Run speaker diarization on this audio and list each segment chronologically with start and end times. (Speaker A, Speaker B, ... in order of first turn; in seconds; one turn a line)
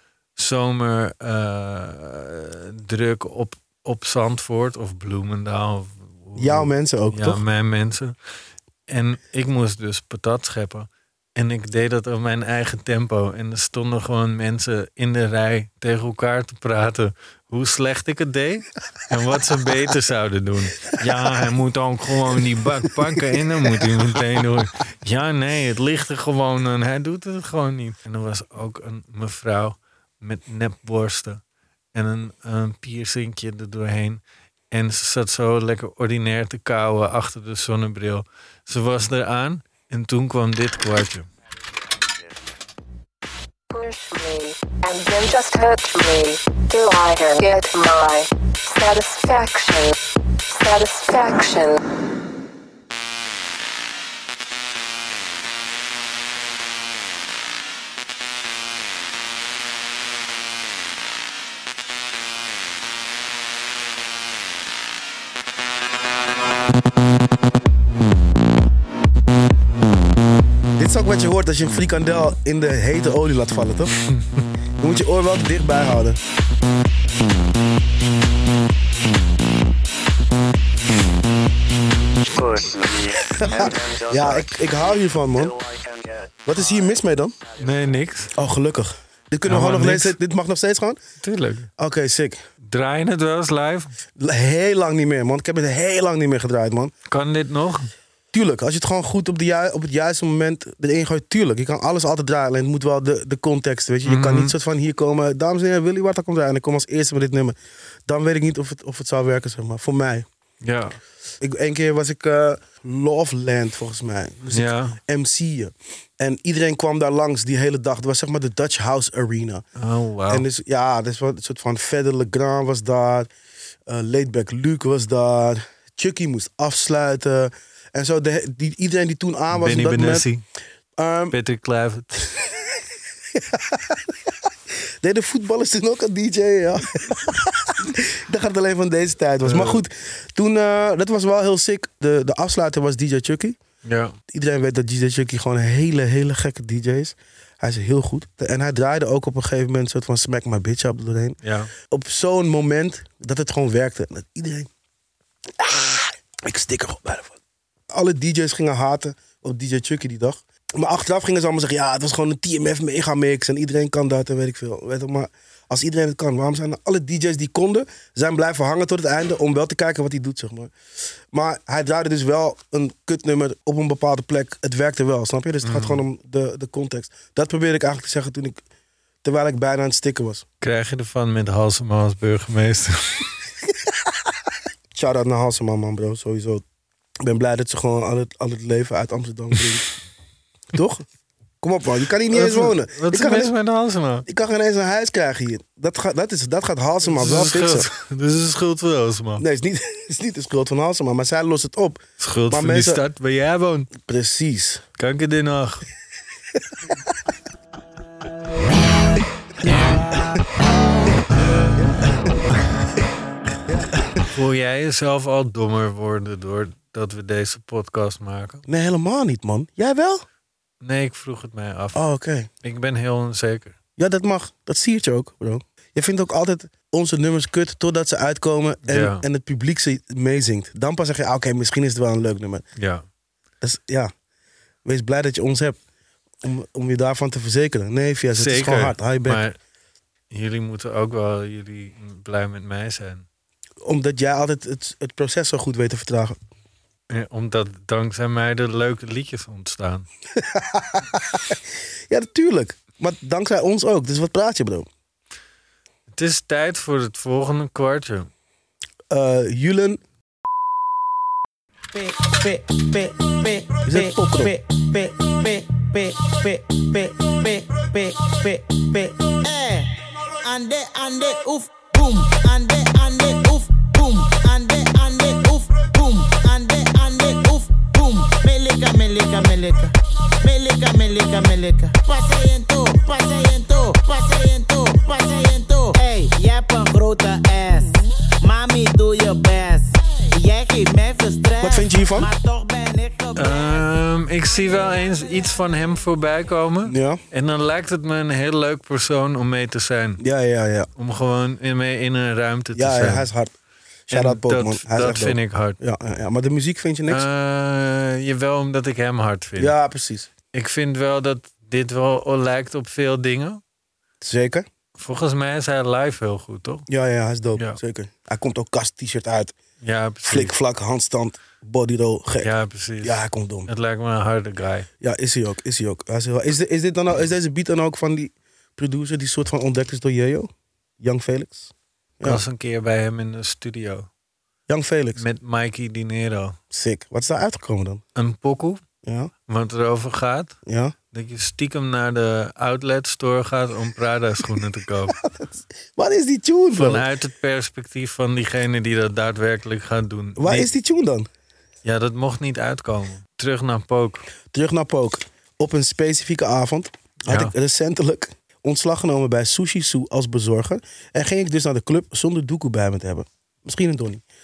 Speaker A: 0.4-8.1
Speaker B: 6.4-7.4
Speaker A: 8.9-31.4
Speaker A: 31.9-41.3
Speaker C: 43.7-49.9
Speaker C: 50.5-51.8
Speaker B: 70.8-73.9
Speaker B: 74.8-76.2
Speaker D: 82.3-86.8
Speaker B: 83.4-85.5
Speaker B: 86.5-87.3
Speaker D: 87.6-87.9
Speaker A: 87.6-88.3
Speaker B: 88.3-91.0
Speaker A: 89.5-90.2
Speaker A: 91.2-91.7
Speaker B: 91.8-92.4
Speaker A: 92.6-93.9
Speaker B: 94.2-96.9
Speaker A: 97.1-97.9
Speaker B: 98.3-107.6
Speaker A: 104.1-104.5
Speaker B: 108.1-110.3
Speaker A: 110.6-111.0
Speaker B: 111.4-119.6
Speaker A: 114.5-115.0
Speaker A: 119.8-120.4
Speaker B: 120.3-123.3
Speaker B: 123.9-130.3
Speaker A: 129.5-130.4
Speaker B: 131.0-131.4
Speaker A: 131.3-132.3
Speaker B: 132.4-132.8
Speaker B: 133.3-134.3
Speaker B: 135.0-143.6
Speaker A: 139.4-139.8
Speaker A: 143.8-144.2
Speaker B: 144.3-154.7
Speaker A: 151.4-151.7
Speaker B: 155.6-157.4
Speaker B: 157.9-170.7
Speaker B: 171.3-178.6
Speaker A: 175.6-176.0
Speaker B: 179.2-180.4
Speaker A: 180.6-183.3
Speaker B: 184.9-186.6
Speaker B: 187.2-189.8
Speaker B: 190.7-191.1
Speaker B: 191.6-193.5
Speaker A: 192.3-194.3
Speaker B: 194.3-197.9
Speaker A: 197.1-199.4
Speaker B: 199.4-203.0
Speaker A: 202.2-203.9
Speaker B: 204.0-204.8
Speaker A: 205.0-205.8
Speaker B: 211.8-212.3
Speaker B: 213.7-214.2
Speaker A: 214.3-218.6
Speaker B: 218.7-220.2
Speaker A: 220.8-222.0
Speaker B: 221.9-222.5
Speaker A: 222.6-223.8
Speaker B: 224.0-232.6
Speaker A: 228.8-229.2
Speaker A: 232.8-233.1
Speaker B: 233.6-234.1
Speaker B: 234.8-235.8
Speaker B: 236.4-239.4
Speaker A: 238.3-239.6
Speaker A: 240.3-243.3
Speaker B: 243.8-246.3
Speaker A: 247.1-250.1
Speaker B: 250.3-254.9
Speaker A: 256.1-258.3
Speaker B: 259.1-260.0
Speaker E: 261.9-293.8
Speaker B: 263.9-264.5
Speaker B: 291.6-292.3
Speaker A: 293.4-300.2
Speaker B: 296.8-297.2
Speaker B: 300.2-300.9
Speaker A: 300.9-303.3
Speaker B: 302.7-303.5
Speaker B: 304.1-307.3
Speaker A: 304.1-305.8
Speaker A: 307.1-309.7
Speaker B: 309.6-310.3
Speaker A: 310.5-313.6
Speaker B: 314.2-314.7
Speaker A: 315.0-316.9
Speaker B: 316.9-319.6
Speaker A: 319.8-320.5
Speaker B: 320.2-322.5
Speaker A: 322.4-324.9
Speaker B: 323.0-323.7
Speaker B: 325.0-332.4
Speaker A: 332.2-334.1
Speaker B: 334.7-335.2
Speaker A: 335.2-336.6
Speaker B: 336.7-338.0
Speaker A: 338.2-338.8
Speaker B: 339.0-339.3
Speaker A: 339.5-340.6
Speaker B: 340.7-340.9
Speaker A: 341.1-345.2
Speaker B: 345.2-347.1
Speaker A: 346.7-350.7
Speaker B: 350.4-351.3
Speaker A: 351.8-354.3
Speaker B: 354.5-364.2
Speaker A: 357.3-357.5